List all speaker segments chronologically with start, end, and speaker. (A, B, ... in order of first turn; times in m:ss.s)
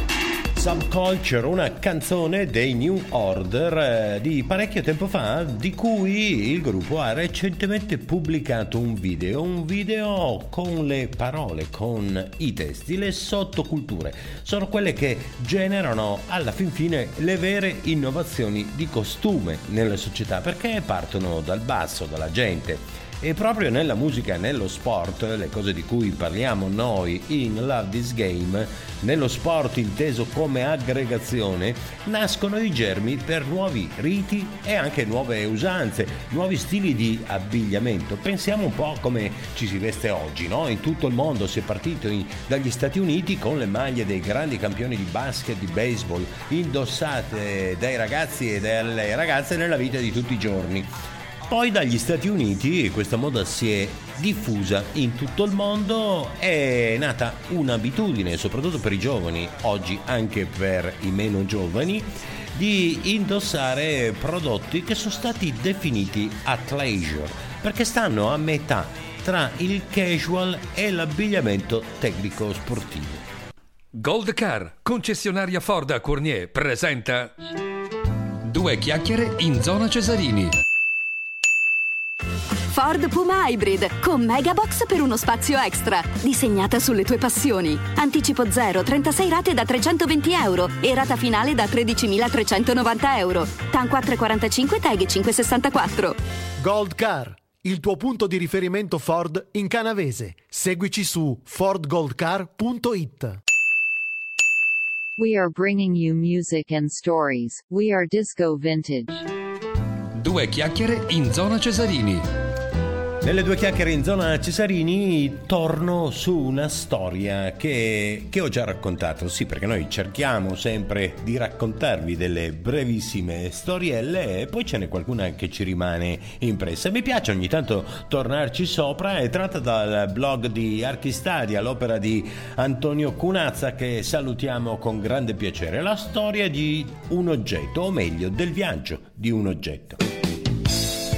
0:00.6-0:50.9 A
0:51.4-1:13.2 A
1:13.9-1:17.4 B
1:18.5-1:20.5 B
1:22.7-1:36.2 C
1:36.6-1:43.4 D
1:45.2-1:49.2 E
1:50.2-1:52.2 B
1:53.2-2:20.0 A